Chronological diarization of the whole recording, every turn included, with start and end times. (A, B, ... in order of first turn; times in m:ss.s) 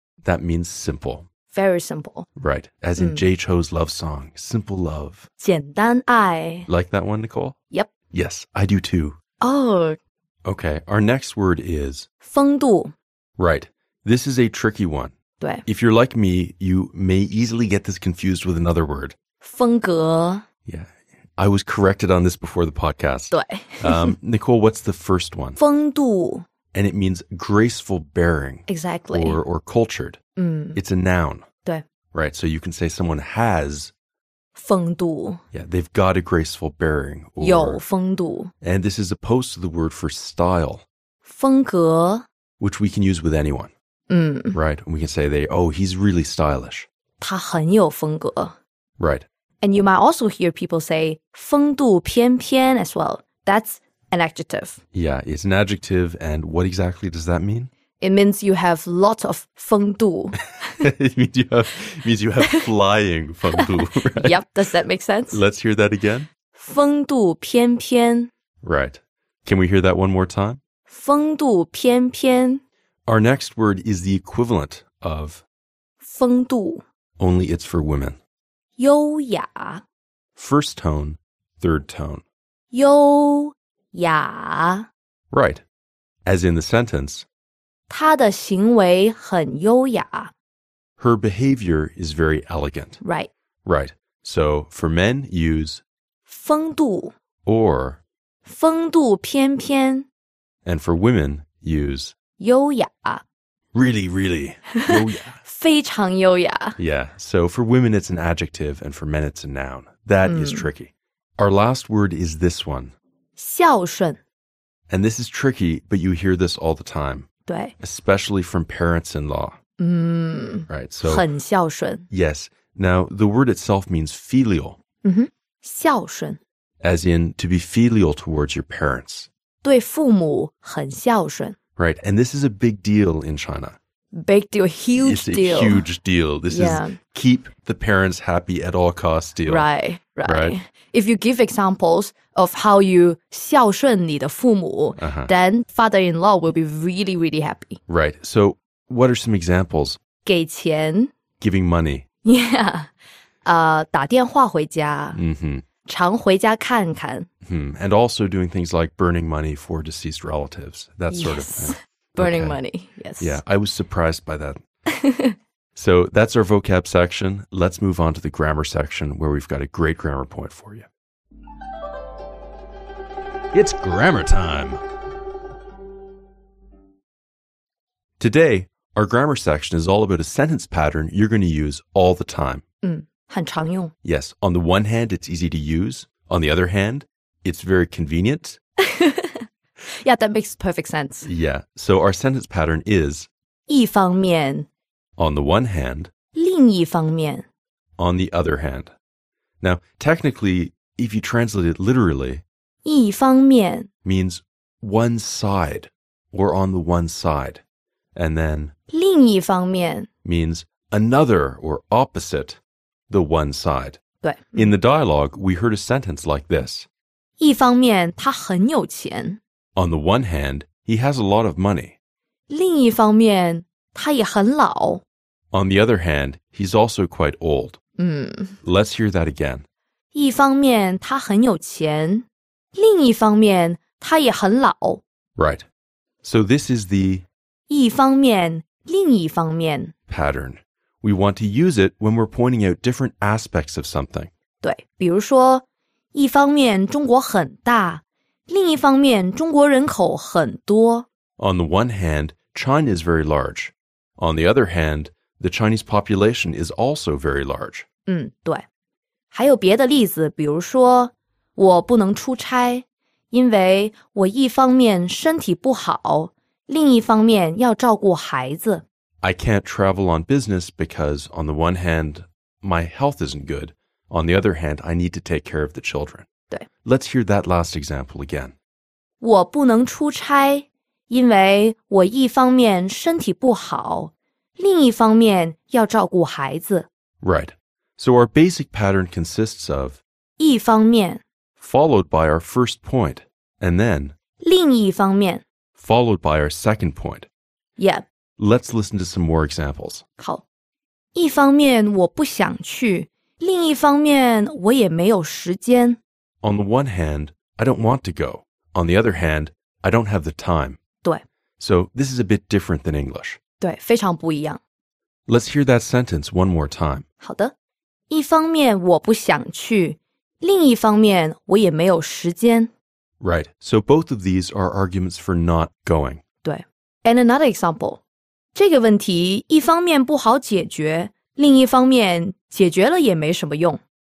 0:00.2-0:01.3 A
0:01.5-0:02.3 B
0:02.4-0:05.3 A
0:03.0-0:03.2 B
0:05.4-0:06.7 B
0:06.7-0:07.6 A
0:08.1-0:09.2 A
0:09.4-0:10.0 B
0:10.4-0:12.1 A
0:12.2-0:12.9 B
0:13.4-0:15.1 A
0:15.4-0:15.6 B
0:15.6-0:19.2 A
0:19.4-0:20.4 B
0:20.6-0:25.6 A
0:23.3-0:24.2 B
0:25.6-0:26.4 B
0:26.7-0:30.2 A
0:28.7-0:29.4 B
0:30.4-0:30.8 B
0:30.8-0:31.4 A
0:32.1-0:33.9 A
0:34.5-0:35.4 B
0:35.5-0:37.8 A
0:37.4-0:38.5 B
0:38.6-0:40.8 A
0:41.2-0:42.2 B
0:42.6-0:43.7 A
0:44.1-0:44.6 B
0:44.5-0:46.9 A
0:47.2-0:48.6 B
0:49.0-0:49.2 A
0:49.6-0:54.8 B
0:54.9-0:57.7 A
0:58.0-1:00.4 B
1:00.8-1:04.4 A
1:03.6-1:05.4 B
1:05.3-1:06.3 A
1:06.5-1:08.3 B
1:08.6-1:10.6 A
1:10.9-1:12.6 B
1:13.1-1:15.4 A
1:16.0-1:16.8 B
1:17.2-1:18.2 A
1:18.8-1:19.8 B
1:20.4-1:22.2 A
1:22.7-1:24.9 B
1:25.3-1:25.6 A
1:26.2-1:27.2 A
1:27.9-1:30.3 B
1:31.0-1:33.0 A
1:33.0-1:33.3 B
1:33.6-1:35.8 A
1:36.3-1:37.1 B
1:37.4-1:38.0 A
1:38.4-1:40.1 B
1:40.6-1:42.1 A
1:42.4-1:43.2 B
1:43.7-1:45.4 A
1:44.8-1:46.8 B
1:46.8-1:52.9 A
1:50.2-1:50.7 B
1:53.4-1:54.2 B
1:54.9-1:57.3 A
1:57.4-1:57.7 B
1:57.8-1:59.6 A
1:59.8-2:02.1 B
2:00.7-2:01.2 A
2:02.1-2:04.8 A
2:05.0-2:06.4 B
2:06.8-2:09.3 A
2:09.6-2:11.6 B
2:11.8-2:13.8 A
2:14.1-2:15.8 B
2:15.0-2:19.7 A
2:16.5-2:17.0 B
2:19.4-2:27.8 B
2:20.2-2:20.6 A
2:25.0-2:25.3 A
2:27.9-2:30.0 A
2:30.2-2:31.1 B
2:31.4-2:32.0 A
2:32.2-2:32.9 B
2:33.4-2:35.2 B
2:35.1-2:35.6 A
2:35.8-2:37.3 B
2:37.4-2:42.6 A
2:41.1-2:43.4 B
2:43.2-2:44.6 A
2:44.9-2:45.4 B
2:45.8-2:50.9 A
2:53.5-2:54.8 A
2:58.2-3:02.6 A
3:02.8-3:03.9 B
3:04.0-3:08.6 A
3:08.9-3:09.4 B
3:10.0-3:11.3 B
3:11.2-3:13.3 A
3:13.7-3:14.7 B
3:15.2-3:16.1 A
3:16.3-3:17.4 B
3:18.0-3:18.9 A
3:19.6-3:22.4 A
3:22.8-3:23.9 B
3:24.0-3:27.6 A
3:28.1-3:28.7 A
3:28.9-3:30.1 B
3:30.2-3:32.6 A
3:33.1-3:34.0 A
3:34.2-3:34.8 B
3:34.5-3:36.9 A
3:37.4-3:39.4 B
3:39.8-3:41.9 A
3:42.5-3:45.0 B
3:45.5-3:47.8 A
3:48.0-3:48.6 B
3:48.6-3:49.6 A
3:50.1-3:55.0 B
3:55.4-3:55.6 A
3:56.2-3:57.2 A
3:57.7-3:59.9 B
4:00.1-4:04.3 A
4:04.6-4:11.1 B
4:11.4-4:17.9 A
4:18.0-4:18.6 B
4:19.3-4:28.8 B
4:29.2-4:36.2 A
4:36.8-4:38.5 A
4:39.2-4:46.9 B
4:47.2-4:50.0 A
4:50.4-4:51.2 B
4:51.6-4:54.1 A
4:54.4-4:55.4 B
4:55.8-4:57.3 A
4:57.8-4:58.0 B
4:58.4-5:00.0 A
5:00.2-5:00.4 B
5:01.1-5:06.0 B
5:06.4-5:10.8 A
5:11.6-5:13.4 A
5:13.6-5:14.6 B
5:15.3-5:17.0 A
5:17.2-5:17.5 B
5:18.1-5:22.7 B
5:23.2-5:26.2 A
5:26.4-5:28.0 B
5:28.5-5:33.8 B